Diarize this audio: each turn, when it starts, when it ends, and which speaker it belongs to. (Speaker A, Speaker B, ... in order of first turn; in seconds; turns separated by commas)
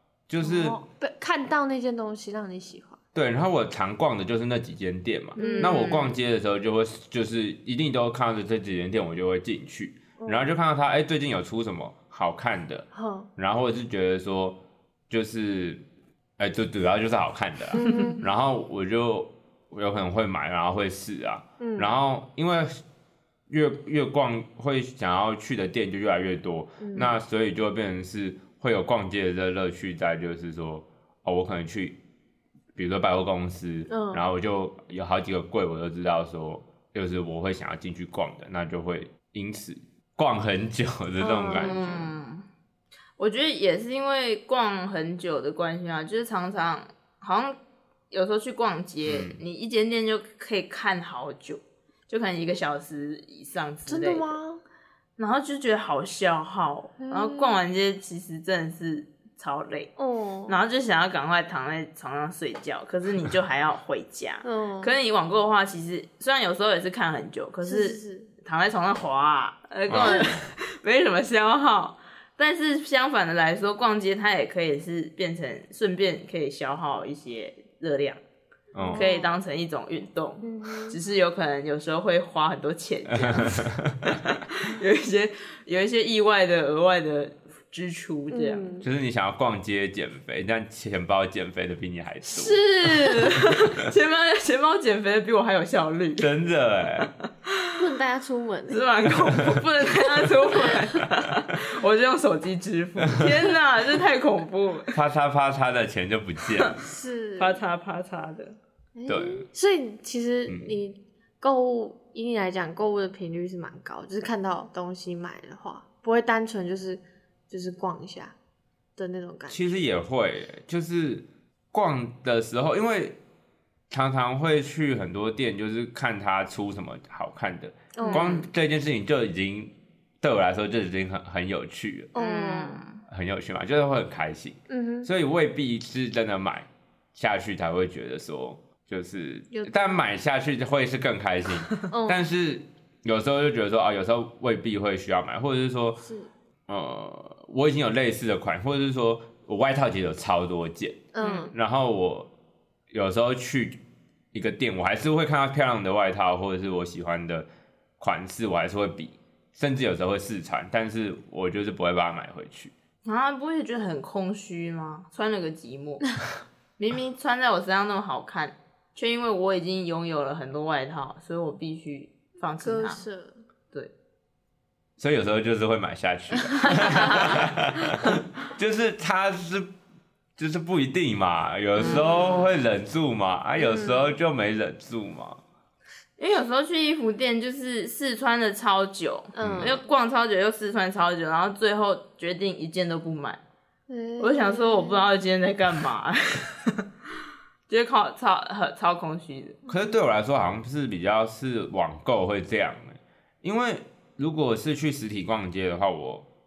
Speaker A: 0.3-0.8, Speaker B: 0.4-3.0, Speaker A: 3.1-12.9, Speaker C: 5.4-6.0, Speaker B: 5.4-6.2, Speaker B: 10.2-10.5, Speaker B: 12.9-13.3, Speaker A: 13.4-14.6, Speaker A: 15.1-15.8, Speaker A: 16.4-22.8, Speaker B: 17.8-18.2, Speaker C: 17.8-18.1, Speaker B: 21.6-21.9, Speaker A: 23.5-32.0, Speaker B: 26.8-27.2, Speaker A: 32.8-42.1, Speaker B: 33.9-34.3, Speaker B: 41.2-41.9, Speaker C: 41.5-42.5, Speaker C: 43.2-47.6, Speaker C: 48.1-54.4, Speaker A: 49.1-49.4, Speaker B: 53.9-54.6, Speaker C: 55.2-59.9, Speaker B: 57.0-57.6, Speaker B: 60.0-60.6, Speaker C: 60.5-78.2, Speaker B: 64.4-64.9, Speaker B: 67.6-68.3, Speaker A: 69.9-70.4, Speaker B: 70.0-70.3, Speaker A: 78.7-79.1, Speaker B: 78.8-79.4, Speaker C: 79.0-88.8, Speaker B: 80.4-81.0, Speaker A: 83.1-84.2, Speaker B: 88.3-88.9, Speaker A: 88.8-93.8, Speaker C: 92.2-96.3, Speaker A: 96.2-97.1, Speaker C: 97.0-97.7, Speaker B: 97.8-98.9, Speaker C: 98.7-105.0, Speaker A: 99.2-99.6, Speaker A: 103.0-103.5, Speaker A: 104.9-106.8, Speaker B: 106.8-107.6, Speaker C: 107.4-108.6, Speaker B: 109.0-118.3, Speaker A: 109.1-109.5, Speaker A: 110.5-110.7, Speaker B: 119.0-119.8, Speaker A: 119.5-123.2, Speaker A: 123.9-132.1, Speaker B: 128.0-128.3, Speaker C: 128.0-128.5, Speaker B: 132.1-132.8, Speaker C: 132.2-133.0, Speaker A: 133.1-146.0, Speaker B: 134.7-135.1, Speaker B: 139.5-140.0, Speaker B: 141.9-142.2, Speaker B: 146.0-146.3, Speaker A: 146.7-152.3, Speaker B: 151.1-151.5, Speaker C: 151.2-151.5, Speaker A: 152.9-153.8, Speaker A: 154.3-157.5, Speaker A: 158.0-162.7, Speaker C: 163.1-166.1, Speaker C: 166.8-173.0, Speaker B: 172.6-173.4, Speaker A: 175.0-179.7, Speaker B: 176.6-177.2, Speaker C: 176.7-177.4, Speaker A: 180.4-185.4, Speaker C: 181.8-182.5, Speaker B: 181.8-182.1, Speaker B: 183.6-184.2, Speaker C: 186.2-193.4, Speaker B: 189.3-189.8, Speaker A: 189.4-189.7, Speaker B: 193.9-195.1, Speaker C: 194.2-196.8, Speaker C: 197.7-199.6, Speaker A: 199.7-206.2